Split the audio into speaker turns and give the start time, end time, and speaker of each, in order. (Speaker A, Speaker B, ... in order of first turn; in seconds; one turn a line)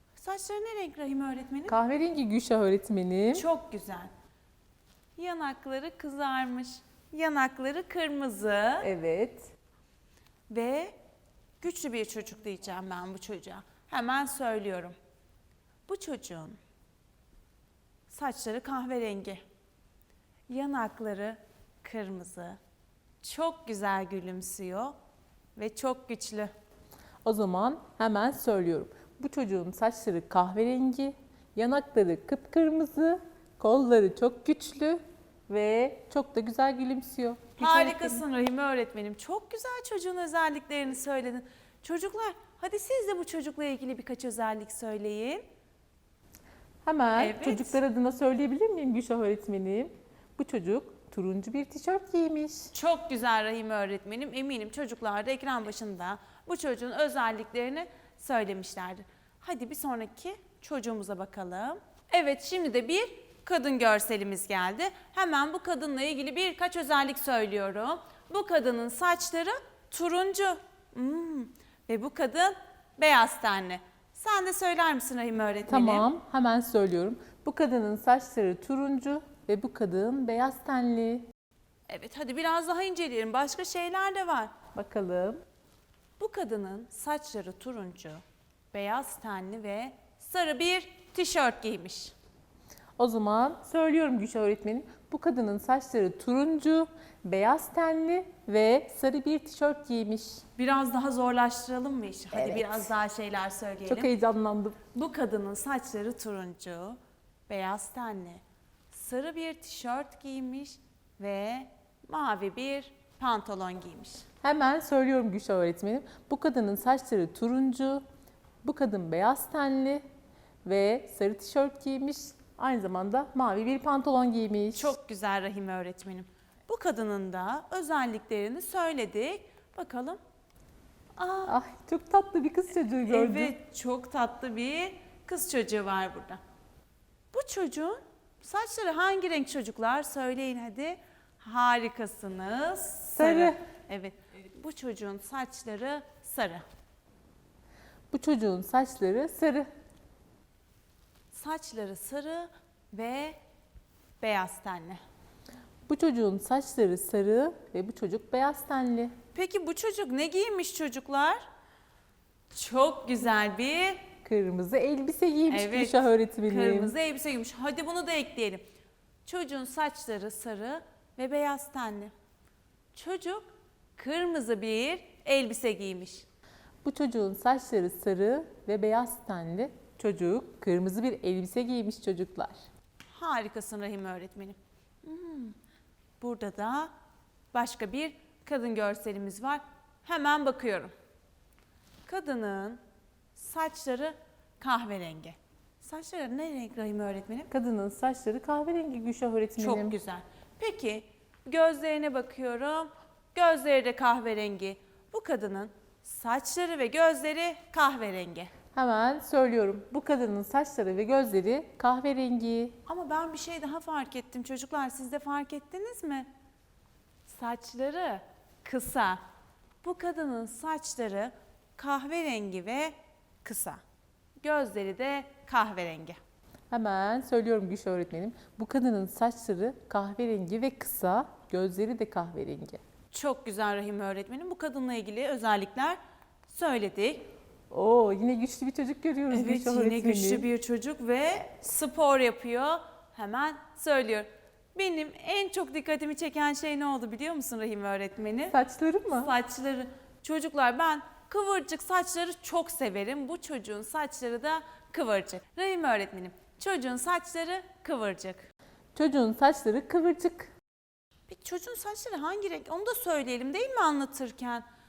Speaker A: 0.2-1.8
Speaker B: 1.7-3.5
Speaker A: 3.3-4.1
Speaker A: 5.2-8.9
Speaker B: 8.8-9.5
Speaker A: 10.5-10.9
Speaker A: 11.6-14.9
Speaker A: 15.9-16.6
Speaker A: 18.1-19.4
Speaker A: 20.5-22.6
Speaker A: 23.2-24.9
Speaker A: 25.6-26.5
Speaker B: 27.2-38.2
Speaker A: 37.6-45.4
Speaker B: 46.9-52.7
Speaker A: 47.1-47.8
Speaker A: 52.7-76.1
Speaker B: 75.7-81.3
Speaker A: 81.9-84.5
Speaker B: 84.7-85.4
Speaker A: 86.2-92.1
Speaker B: 93.0-100.4
Speaker A: 100.6-104.1
Speaker B: 102.3-102.9
Speaker B: 103.8-104.8
Speaker A: 104.9-114.2
Speaker B: 114.4-118.0
Speaker B: 118.6-120.0
Speaker B: 120.6-124.9
Speaker A: 124.7-130.2
Speaker A: 131.2-131.6
Speaker B: 131.5-133.5
Speaker A: 133.1-136.4
Speaker A: 137.3-146.6
Speaker B: 143.1-143.6
Speaker B: 148.1-149.7
Speaker A: 151.3-153.4
Speaker A: 154.2-155.0
Speaker B: 155.9-159.1
Speaker A: 159.3-161.4
Speaker A: 162.5-164.0
Speaker B: 164.2-166.9
Speaker A: 165.5-168.6
Speaker A: 169.2-172.1
Speaker A: 172.9-176.2
Speaker B: 176.8-182.6
Speaker A: 183.1-185.6
Speaker A: 186.2-186.9
Speaker A: 187.5-190.9
Speaker A: 192.1-192.8
Speaker A: 193.3-197.5
Speaker B: 197.5-199.9
Speaker A: 199.6-208.5
Speaker B: 208.7-212.7
Speaker A: 212.8-216.3
Speaker A: 217.3-219.2
Speaker A: 219.8-223.8
Speaker A: 224.4-226.2
Speaker B: 226.7-232.8
Speaker A: 233.1-237.3
Speaker B: 237.7-240.4
Speaker A: 239.3-248.6
Speaker B: 248.5-249.3
Speaker A: 249.1-258.5
Speaker B: 258.9-260.5
Speaker A: 261.3-264.6